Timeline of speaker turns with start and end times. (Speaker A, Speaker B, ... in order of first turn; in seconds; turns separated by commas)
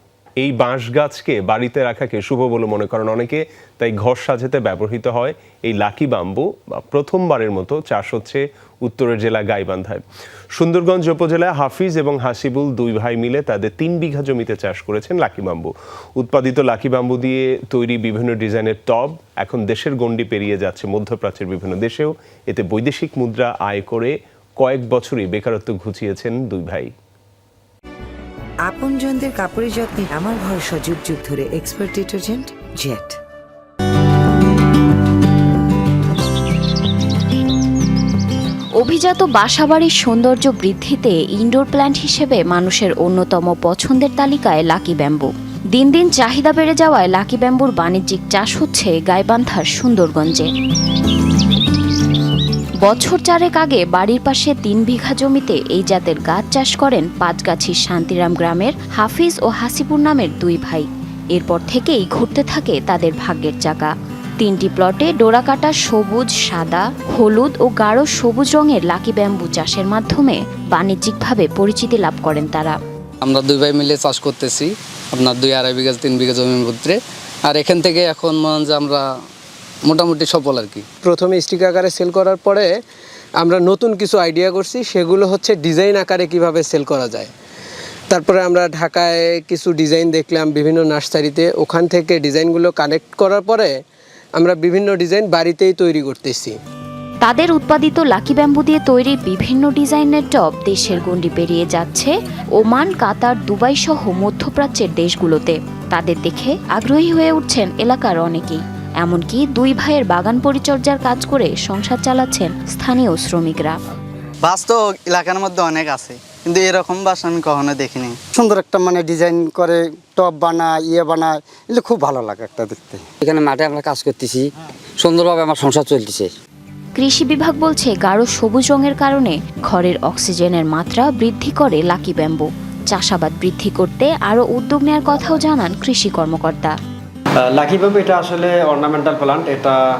Speaker A: 0.4-10.0, Speaker A: 10.6-26.9, Speaker B: 28.7-33.2, Speaker C: 38.8-50.5, Speaker C: 52.8-72.8, Speaker D: 73.2-79.1, Speaker D: 79.8-80.9, Speaker E: 81.0-82.7, Speaker E: 83.4-87.3, Speaker E: 88.1-93.7, Speaker E: 94.4-96.6, Speaker C: 97.2-113.8, Speaker F: 114.5-118.2, Speaker G: 118.3-123.0, Speaker H: 123.2-126.3, Speaker C: 127.0-136.7, Speaker I: 137.5-139.8